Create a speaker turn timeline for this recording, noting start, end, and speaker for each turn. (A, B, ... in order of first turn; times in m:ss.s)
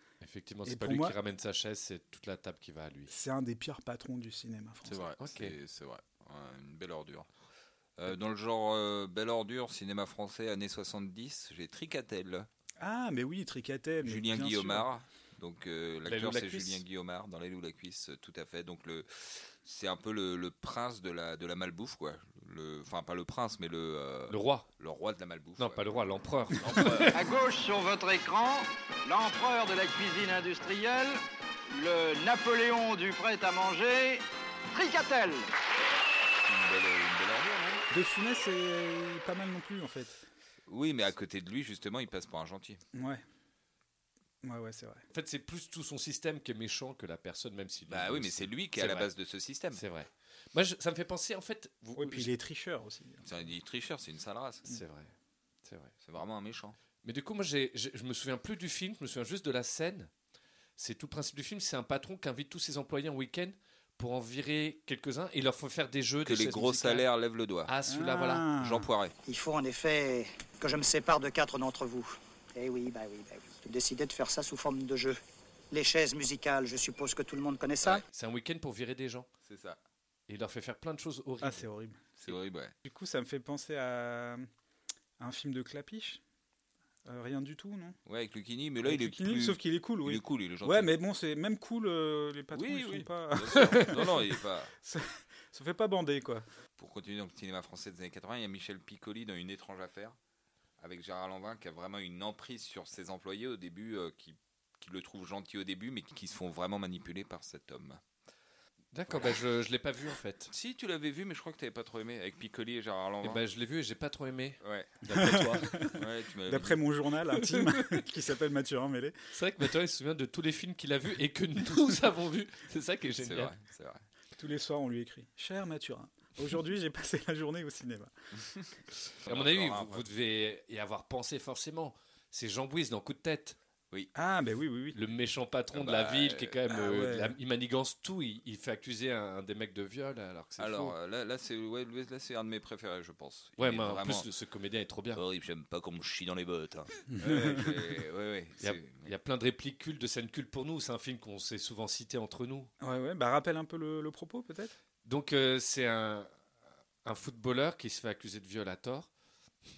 0:00.2-0:03.1 A
0:00.6-0:01.2 B
0:03.1-0:05.0 B
0:04.8-0:07.3 C
0:05.2-0:05.5 A
0:08.0-0:12.5 C
0:12.8-0:14.9 B
0:14.0-0:25.9 C
0:16.1-0:16.8 A
0:24.3-0:24.6 A
0:25.6-0:27.1 A
0:26.6-0:27.1 C
0:27.1-0:31.2 D
0:31.7-0:35.5 D
0:36.4-0:37.8 C
0:37.9-0:40.2 B
0:40.7-0:42.8 C
0:42.9-0:43.2 B
0:44.4-0:45.0 B
0:45.1-0:49.1 A
0:47.9-0:49.8 C
0:49.7-0:52.3 A
0:52.0-0:53.4 B
0:53.2-0:54.6 C
0:54.7-0:55.1 A
0:55.6-0:55.9 A
0:56.0-0:56.8 C
0:57.0-1:00.1 A
1:00.8-1:07.0 A
1:06.2-1:07.7 C
1:07.6-1:08.4 A
1:07.8-1:08.9 B
1:08.6-1:09.1 C
1:09.3-1:15.2 E
1:15.7-1:18.0 E
1:18.1-1:19.3 A
1:19.4-1:19.8 C
1:20.3-1:21.6 A
1:21.4-1:22.0 B
1:22.2-1:22.7 C
1:22.8-1:24.4 B
1:25.2-1:26.2 B
1:27.0-1:28.0 B
1:28.0-1:30.9 C
1:28.8-1:34.1 B
1:32.5-1:34.7 C
1:34.8-1:36.4 B
1:36.8-1:40.2 C
1:40.8-1:48.0 C
1:48.9-1:50.5 A
1:49.1-1:49.3 C
1:50.5-1:53.4 C
1:53.2-1:55.8 A
1:54.6-1:54.9 C
1:55.2-1:59.2 B
1:55.9-1:56.8 C
1:57.4-1:57.7 A
1:59.3-2:03.5 A
2:03.1-2:04.0 C
2:04.4-2:08.1 B
2:09.2-2:10.0 C
2:09.2-2:13.6 A
2:14.1-2:15.0 B
2:14.9-2:20.9 A
2:15.7-2:16.5 C
2:16.7-2:17.3 B
2:20.6-2:24.2 C
2:23.6-2:25.2 A
2:25.2-2:29.1 C
2:27.1-2:27.8 B
2:28.6-2:32.7 A
2:32.8-2:34.7 B
2:35.0-2:36.3 A
2:37.0-2:39.1 A